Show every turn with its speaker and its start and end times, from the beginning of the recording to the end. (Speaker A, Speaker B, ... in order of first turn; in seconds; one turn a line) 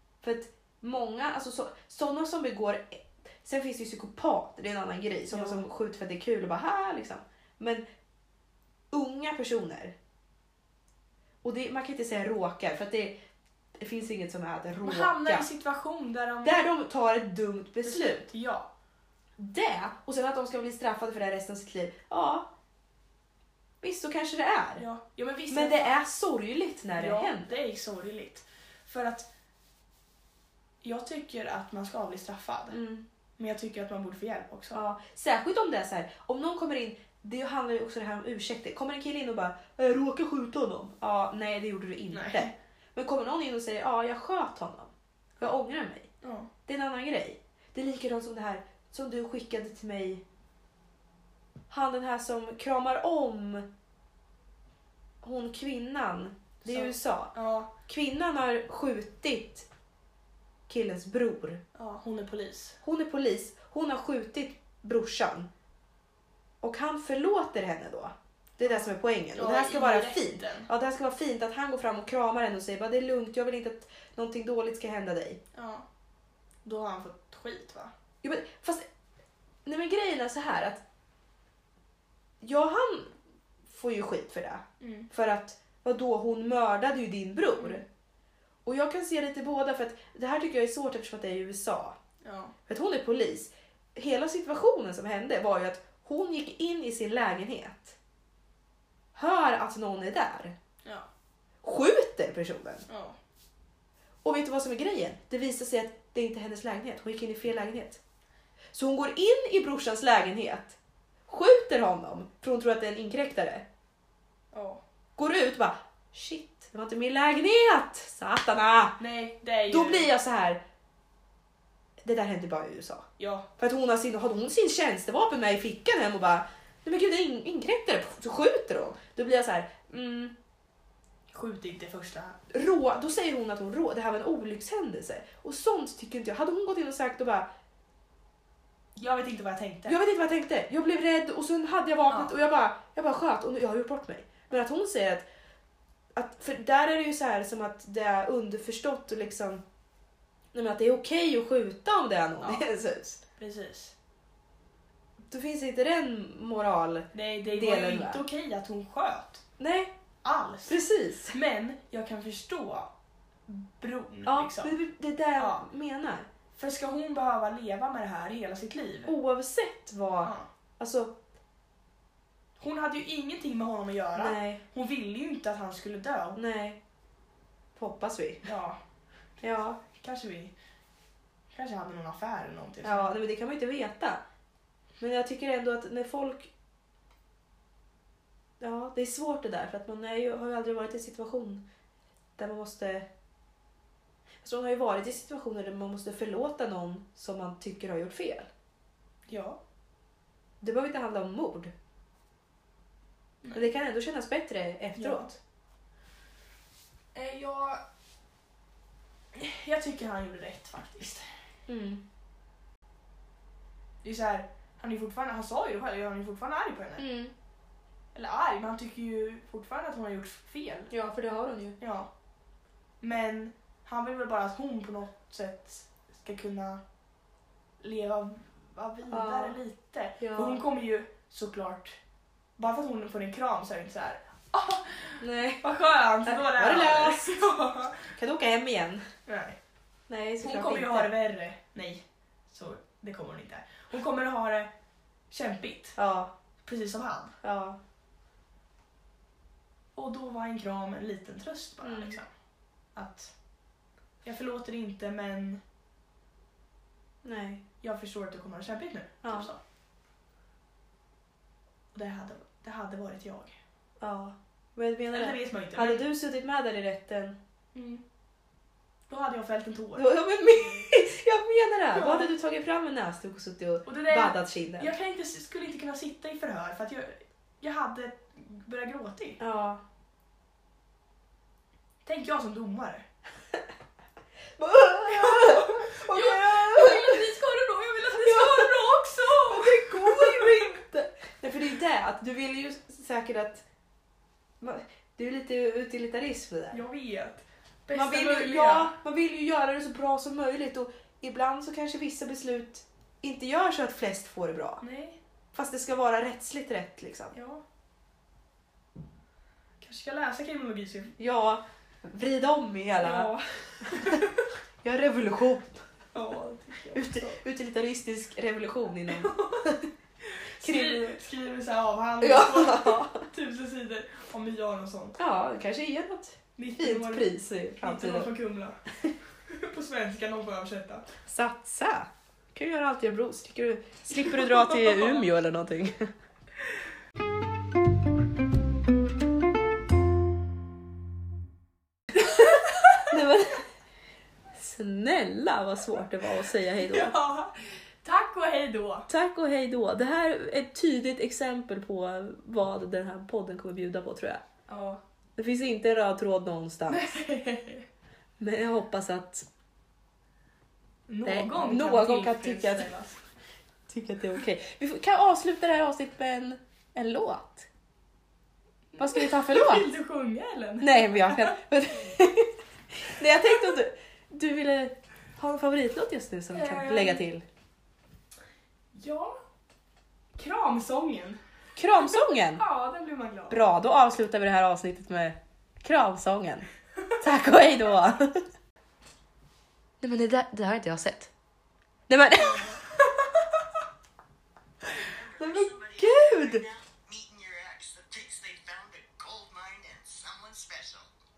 Speaker A: 0.2-7.8
Speaker B: 5.3-5.6
Speaker A: 8.9-10.0
Speaker A: 11.4-13.2
Speaker A: 13.8-15.5
Speaker B: 14.8-16.6
Speaker A: 16.4-18.3
Speaker B: 17.8-18.7
Speaker A: 19.4-22.5
Speaker A: 23.8-24.9
Speaker B: 24.8-25.9
Speaker A: 25.5-27.5
Speaker B: 27.0-29.3
Speaker B: 30.8-32.8
Speaker A: 32.7-33.1
Speaker B: 33.4-34.8
Speaker A: 34.7-46.1
Speaker B: 42.1-42.5
Speaker B: 46.2-46.5
Speaker A: 46.7-50.2
Speaker A: 51.7-53.7
Speaker A: 55.2-59.7
Speaker B: 56.6-57.7
Speaker A: 60.7-61.6
Speaker B: 61.8-62.8
Speaker A: 62.8-65.5
Speaker A: 66.6-75.4
Speaker B: 68.6-70.7
Speaker B: 75.5-75.9
Speaker B: 76.7-77.9
Speaker A: 78.2-78.9
Speaker A: 79.7-80.8
Speaker A: 82.4-87.8
Speaker B: 84.8-85.1
Speaker A: 88.7-92.0
Speaker B: 92.2-92.5
Speaker A: 92.7-98.0
Speaker A: 99.2-100.6
Speaker A: 101.6-102.8
Speaker B: 102.9-103.2
Speaker A: 104.2-108.0
Speaker A: 108.7-113.7
Speaker B: 114.5-114.8
Speaker A: 115.2-119.0
Speaker B: 119.0-120.1
Speaker A: 119.7-120.6
Speaker A: 122.0-130.3
Speaker B: 123.2-123.5
Speaker B: 131.3-132.4
Speaker A: 132.5-137.5
Speaker B: 139.0-140.0
Speaker A: 139.9-145.3
Speaker B: 142.1-142.3
Speaker A: 146.1-149.6
Speaker A: 150.5-153.2
Speaker B: 152.4-152.7
Speaker B: 153.4-153.9
Speaker A: 155.3-158.2
Speaker B: 157.1-159.4
Speaker A: 159.6-159.9
Speaker B: 160.2-162.9
Speaker A: 160.7-161.3
Speaker B: 163.5-164.8
Speaker A: 164.3-166.3
Speaker B: 165.4-165.7
Speaker B: 166.5-169.1
Speaker A: 169.1-171.2
Speaker B: 172.6-176.4
Speaker A: 174.2-174.6
Speaker A: 176.3-176.8
Speaker A: 177.8-178.5
Speaker B: 178.4-178.8
Speaker A: 179.4-179.8
Speaker B: 179.4-180.6
Speaker B: 181.5-183.2
Speaker A: 182.8-184.2
Speaker A: 185.0-186.5
Speaker A: 188.6-191.7
Speaker A: 192.4-193.1
Speaker A: 194.4-198.5
Speaker B: 199.3-199.6
Speaker A: 200.6-201.7
Speaker A: 203.5-205.4
Speaker B: 205.0-205.3
Speaker B: 207.2-207.8
Speaker B: 209.3-211.3
Speaker A: 211.7-212.0
Speaker B: 214.0-217.1
Speaker A: 217.0-217.3
Speaker B: 218.1-220.9
Speaker A: 220.9-221.8
Speaker B: 221.8-222.1
Speaker B: 223.0-226.8
Speaker B: 227.8-232.0
Speaker A: 229.1-229.6
Speaker A: 230.2-230.6
Speaker B: 232.6-238.1
Speaker A: 235.2-235.7
Speaker A: 236.2-237.5
Speaker A: 238.1-239.1
Speaker B: 239.3-239.6
Speaker A: 240.1-241.1
Speaker B: 240.4-244.7
Speaker B: 245.3-246.0
Speaker A: 246.0-246.3
Speaker B: 246.6-247.4
Speaker A: 247.4-247.8
Speaker B: 250.0-252.3
Speaker A: 251.8-252.2
Speaker B: 252.9-253.3
Speaker B: 254.2-255.6
Speaker A: 257.2-257.6
Speaker B: 257.8-259.6
Speaker A: 259.2-259.5
Speaker B: 261.9-263.6
Speaker A: 264.0-267.4
Speaker B: 265.1-266.1
Speaker B: 267.8-268.0
Speaker B: 269.1-270.1
Speaker A: 270.0-274.9
Speaker B: 271.9-272.3
Speaker B: 273.9-279.4
Speaker A: 279.4-279.8
Speaker B: 282.1-283.1
Speaker A: 284.6-287.3
Speaker B: 285.1-290.7
Speaker A: 288.1-288.7
Speaker A: 289.5-293.6
Speaker A: 294.6-296.8
Speaker B: 296.7-299.0
Speaker A: 297.9-304.8
Speaker B: 304.8-305.2
Speaker A: 305.5-307.3
Speaker B: 307.3-307.6
Speaker B: 309.8-311.2
Speaker A: 311.2-314.3
Speaker B: 313.0-314.5
Speaker A: 314.8-315.8
Speaker B: 316.1-317.4
Speaker A: 316.9-319.9
Speaker B: 319.1-325.2
Speaker A: 320.6-321.3
Speaker A: 322.2-323.2
Speaker A: 325.2-328.3
Speaker B: 326.6-328.8
Speaker B: 329.5-331.1
Speaker A: 331.3-336.1
Speaker B: 334.3-335.2
Speaker A: 343.0-343.7
Speaker A: 344.5-347.1
Speaker B: 346.8-349.1
Speaker A: 349.1-354.4
Speaker B: 354.7-355.0
Speaker A: 355.4-357.2
Speaker B: 356.9-357.9
Speaker A: 358.4-359.5
Speaker B: 361.1-363.2
Speaker A: 361.2-362.9
Speaker A: 363.9-367.7
Speaker B: 368.9-371.6
Speaker A: 369.0-369.9
Speaker A: 370.8-377.4
Speaker B: 376.5-377.2
Speaker B: 378.9-379.4
Speaker B: 380.4-381.4
Speaker A: 381.8-382.6
Speaker B: 382.2-383.7
Speaker A: 383.5-388.5
Speaker A: 390.0-391.3
Speaker A: 392.1-392.8
Speaker C: 394.8-401.1
Speaker A: 395.4-396.6